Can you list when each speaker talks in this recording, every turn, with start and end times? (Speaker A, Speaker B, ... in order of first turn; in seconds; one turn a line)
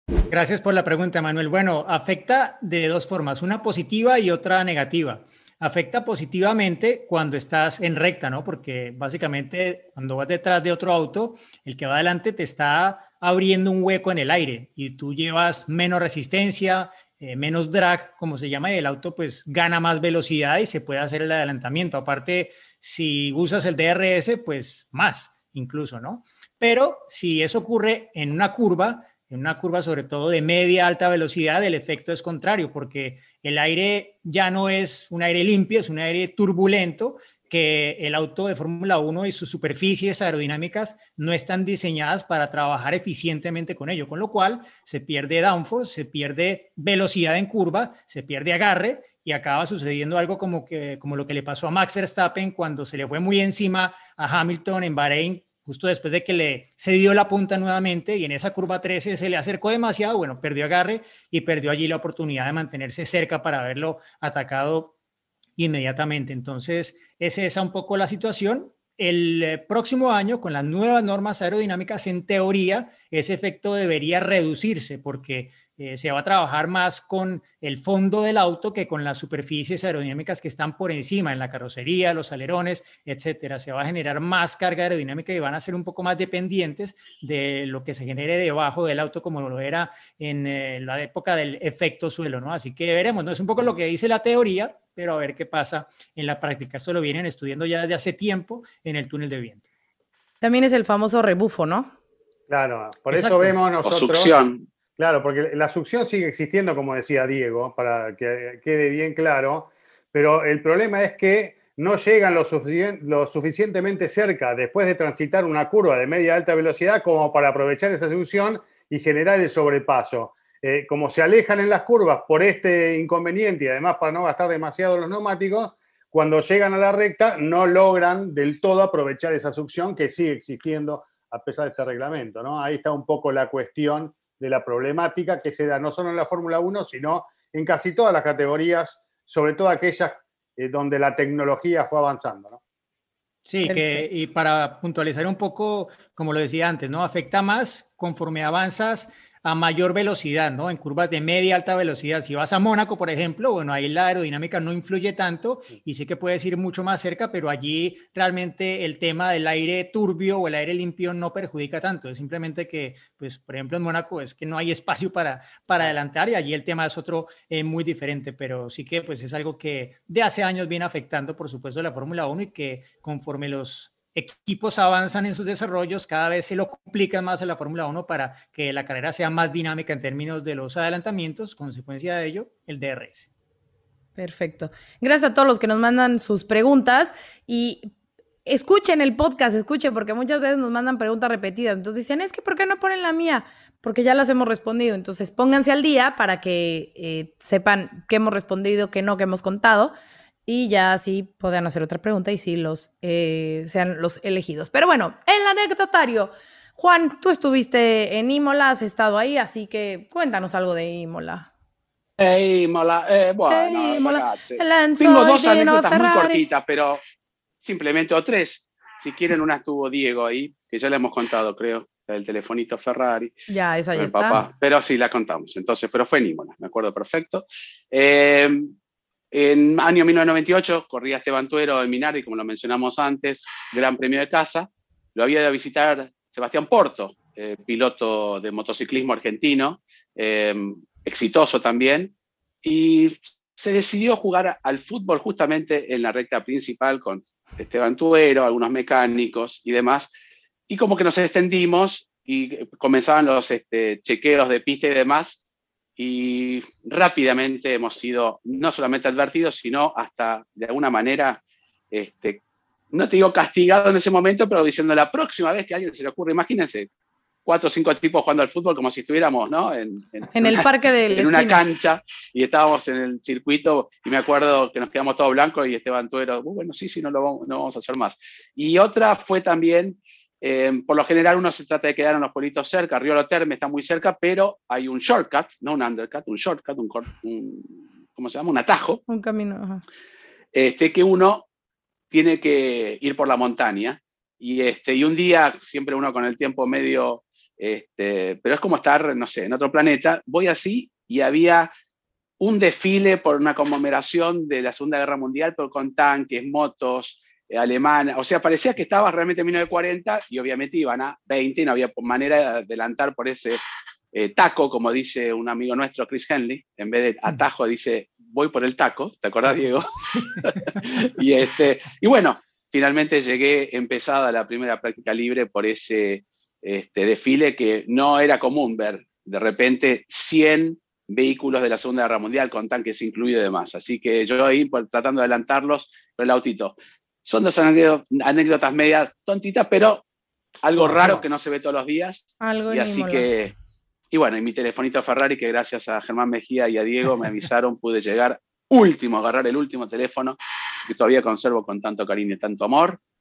Speaker A: 0.3-64.9
Speaker A: 65.6-99.6
Speaker B: 100.4-101.9
Speaker C: 102.5-104.4
Speaker A: 103.1-103.5
Speaker D: 103.8-104.6
Speaker C: 105.0-142.6
Speaker A: 143.5-183.3
Speaker B: 143.6-144.0
Speaker B: 184.2-187.9
Speaker B: 188.5-199.9
Speaker B: 200.5-211.5
Speaker D: 212.2-217.0
Speaker B: 213.5-216.4
Speaker D: 217.6-223.3
Speaker B: 223.5-224.4
Speaker D: 223.9-228.7
Speaker D: 229.3-242.1
Speaker D: 242.6-250.1
Speaker D: 250.7-255.4
Speaker D: 256.0-261.4
Speaker D: 261.9-262.4
Speaker D: 262.9-266.9
Speaker D: 267.4-289.0
Speaker B: 270.3-271.6
Speaker B: 289.1-289.8
Speaker D: 290.5-291.4
Speaker D: 292.1-301.7
Speaker D: 302.4-313.6
Speaker D: 314.1-319.9
Speaker A: 320.1-320.5
Speaker D: 320.4-336.7
Speaker D: 337.3-340.0
Speaker D: 340.6-343.5
Speaker C: 340.8-341.2
Speaker B: 342.4-343.3
Speaker D: 344.1-353.0